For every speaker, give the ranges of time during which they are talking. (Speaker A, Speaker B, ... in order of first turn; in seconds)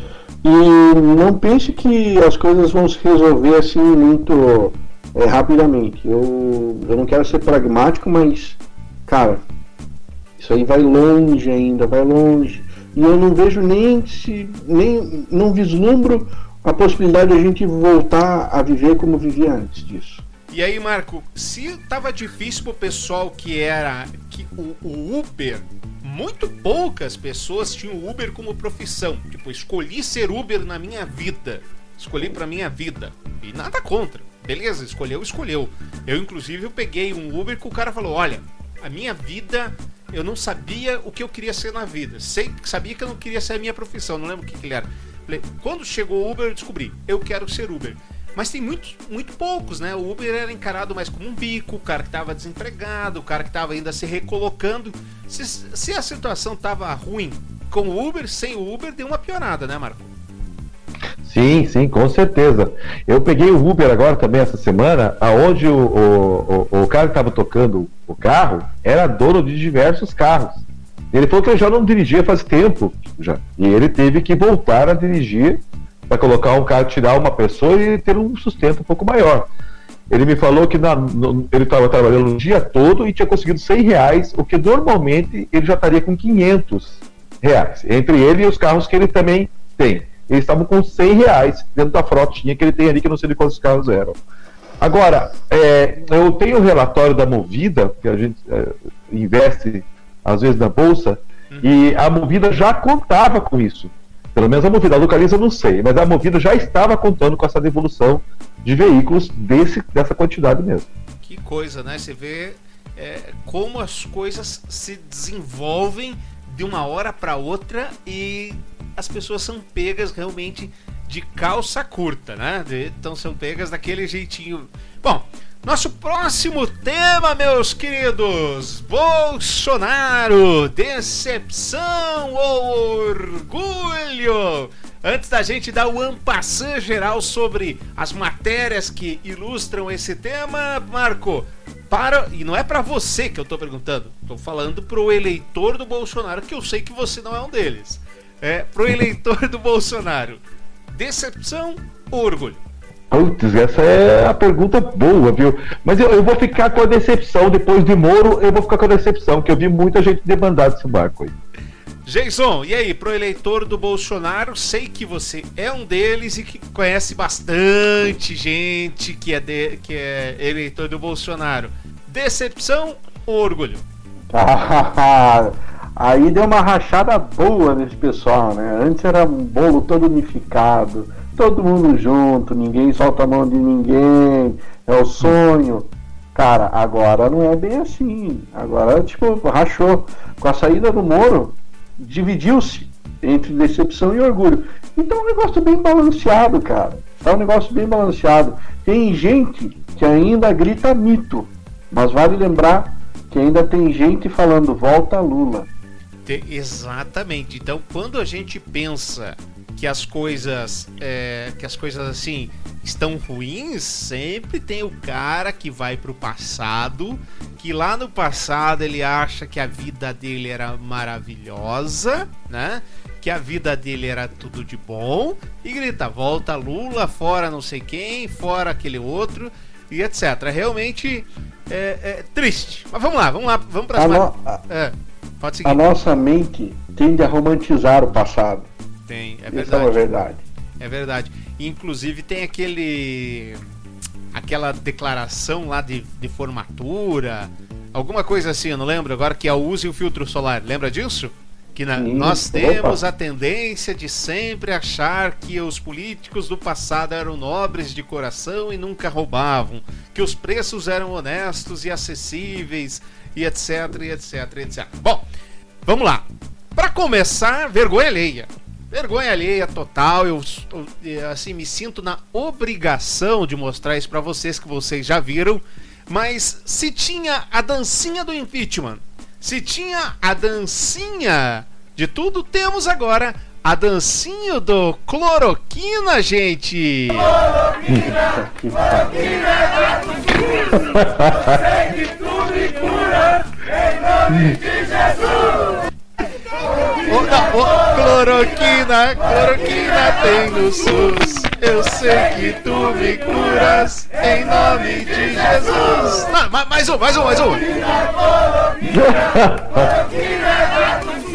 Speaker A: 0.4-9.4, 10.4-20.2, 174.3-205.7, 234.0-234.6, 235.7-238.7, 239.5-240.4, 252.0-253.0, 287.9-289.6
Speaker B: 20.5-60.1, 111.2-152.6, 162.1-173.8, 206.3-235.8, 239.1-240.1, 240.8-243.6, 244.3-265.2, 265.9-287.3, 297.1-307.8
Speaker C: 61.2-79.5, 80.1-94.2, 94.8-110.9, 153.1-161.3, 290.9-291.6, 294.3-294.6, 308.9-310.0